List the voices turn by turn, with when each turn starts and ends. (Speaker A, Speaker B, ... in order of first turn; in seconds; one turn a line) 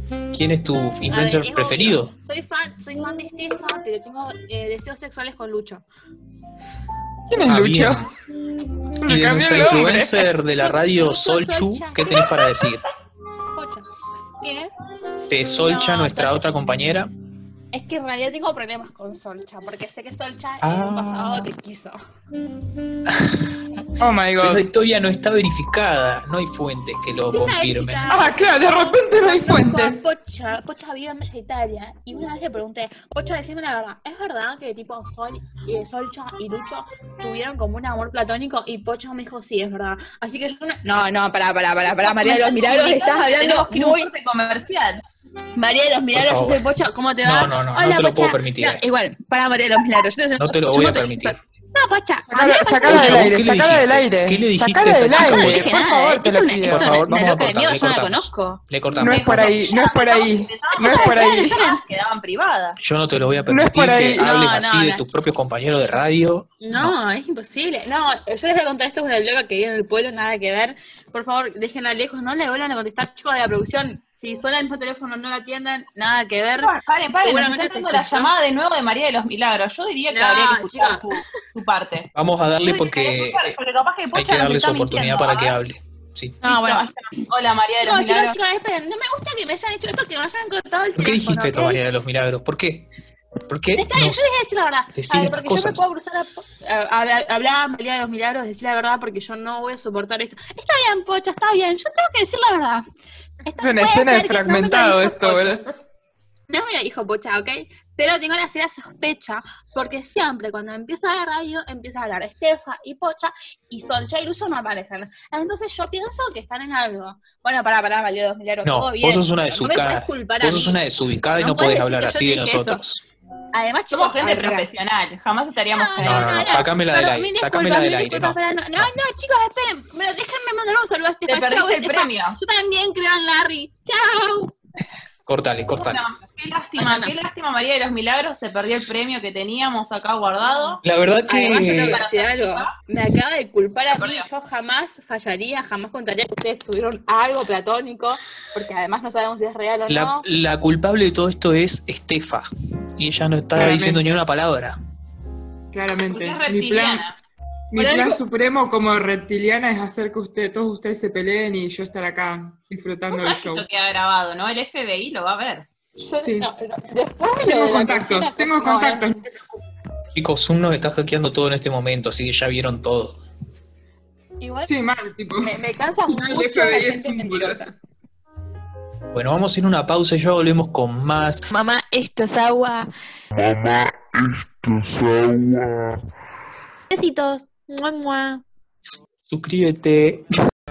Speaker A: 0.3-2.1
Speaker B: 1.1-5.8
Speaker C: 7.3-8.1
Speaker A: 7.5-8.1
Speaker C: 9.0-10.3
Speaker A: 9.1-12.8
Speaker B: 10.5-12.8
Speaker B: 13.5-13.8
Speaker B: 14.4-14.7
Speaker A: 15.3-17.1
Speaker B: 15.6-16.6
Speaker B: 17.7-22.0
Speaker A: 20.6-21.5
Speaker A: 23.1-23.4
Speaker C: 24.0-24.6
Speaker A: 24.4-28.1
Speaker B: 27.3-44.1
Speaker C: 28.1-30.1
Speaker D: 42.0-45.0
Speaker B: 45.5-53.4
Speaker A: 46.1-46.6
Speaker A: 47.2-48.8
Speaker A: 50.4-51.4
Speaker C: 52.3-57.0
Speaker A: 52.9-55.7
Speaker B: 55.1-58.6
Speaker A: 56.6-59.5
Speaker C: 59.0-61.6
Speaker D: 59.0-62.8
Speaker B: 59.2-59.5
Speaker B: 60.8-61.8
Speaker A: 62.8-67.0
Speaker C: 63.5-64.3
Speaker B: 64.2-65.0
Speaker B: 66.6-78.3
Speaker D: 76.6-85.6
Speaker B: 80.1-81.2
Speaker A: 82.1-83.6
Speaker A: 84.1-86.4
Speaker B: 86.4-86.9
Speaker D: 86.4-88.4
Speaker B: 87.8-91.8
Speaker A: 91.0-92.9
Speaker A: 93.5-94.3
Speaker B: 93.7-102.8
Speaker A: 94.9-95.8
Speaker B: 103.4-105.5
Speaker C: 103.6-105.7
Speaker B: 106.5-122.8
Speaker A: 118.6-123.0
Speaker B: 123.5-124.7
Speaker D: 123.9-126.7
Speaker B: 125.7-134.5
Speaker A: 126.0-128.9
Speaker D: 131.3-132.4
Speaker A: 135.2-136.0
Speaker D: 135.7-140.8
Speaker B: 136.8-137.1
Speaker B: 140.7-150.2
Speaker A: 140.8-142.0
Speaker D: 141.6-142.7
Speaker D: 143.9-144.3
Speaker A: 149.9-154.8
Speaker C: 153.5-154.2
Speaker C: 155.7-157.1
Speaker D: 156.1-157.2
Speaker C: 157.7-163.7
Speaker B: 157.7-158.2
Speaker D: 163.1-165.7
Speaker B: 166.0-169.1
Speaker C: 166.2-166.5
Speaker C: 167.4-169.6
Speaker A: 170.1-173.2
Speaker B: 174.4-174.7
Speaker C: 174.7-175.5
Speaker B: 175.4-177.7
Speaker C: 176.1-177.7
Speaker A: 179.1-181.4
Speaker B: 181.5-182.9
Speaker E: 183.3-186.0
Speaker B: 186.9-188.4
Speaker A: 189.3-190.2